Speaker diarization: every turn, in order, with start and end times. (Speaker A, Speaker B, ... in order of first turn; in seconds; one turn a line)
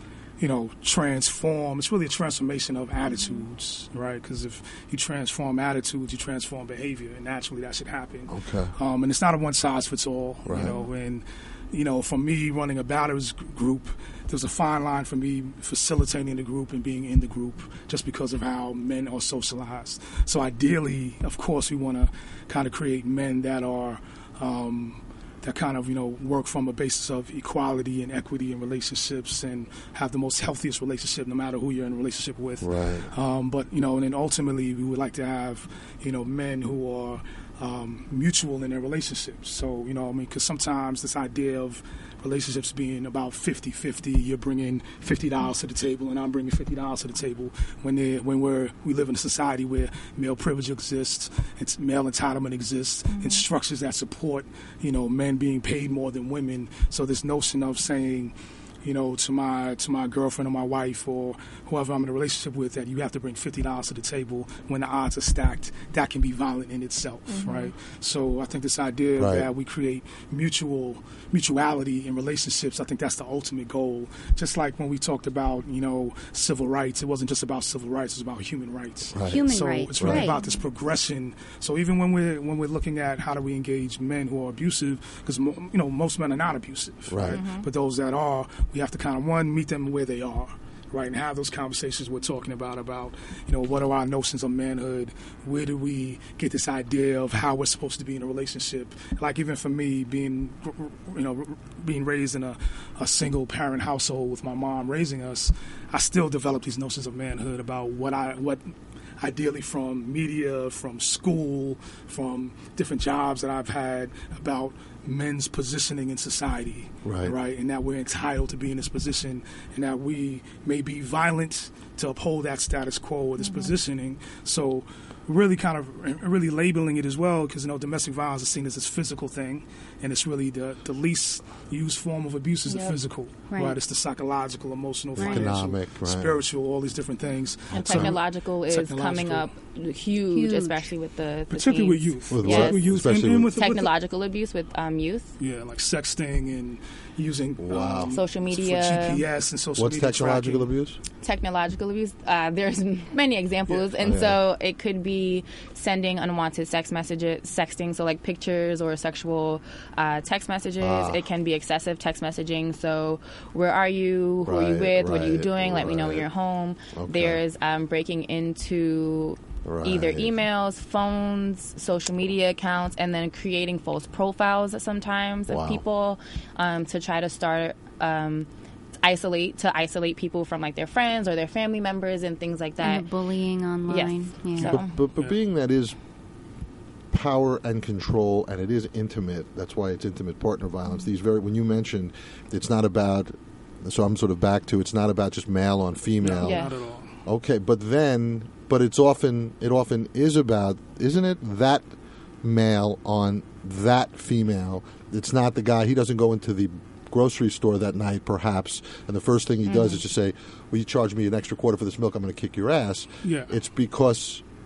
Speaker A: 0.4-139.5
Speaker B: 8.3-8.7
Speaker B: 10.4-10.8
Speaker B: 32.6-33.1
Speaker C: 53.1-53.4
Speaker C: 67.3-67.7
Speaker B: 69.2-69.5
Speaker B: 79.1-79.5
Speaker D: 79.2-80.4
Speaker B: 80.0-80.3
Speaker B: 87.1-87.4
Speaker C: 87.3-87.7
Speaker B: 117.0-117.3
Speaker C: 132.7-133.0
Speaker D: 133.5-133.8
Speaker B: 135.2-136.3
Speaker D: 135.2-135.5
Speaker B: 137.7-138.1
Speaker C: 137.7-145.3
Speaker D: 140.3-140.8
Speaker A: 141.5-143.9
Speaker B: 142.3-143.5
Speaker A: 145.4-150.7
Speaker B: 147.6-148.2
Speaker C: 148.1-149.2
Speaker B: 149.8-151.0
Speaker C: 151.2-178.5
Speaker B: 154.0-154.4
Speaker B: 160.8-161.2
Speaker B: 164.4-166.3
Speaker B: 166.9-167.4
Speaker B: 169.6-170.3
Speaker B: 175.5-175.8
Speaker C: 179.0-183.1
Speaker D: 182.8-184.8
Speaker C: 183.9-184.9
Speaker B: 184.6-185.9
Speaker B: 187.1-196.7
Speaker A: 196.2-197.2
Speaker C: 196.4-196.7
Speaker B: 197.2-201.8
Speaker B: 202.4-214.4
Speaker C: 209.7-210.0
Speaker A: 213.2-213.5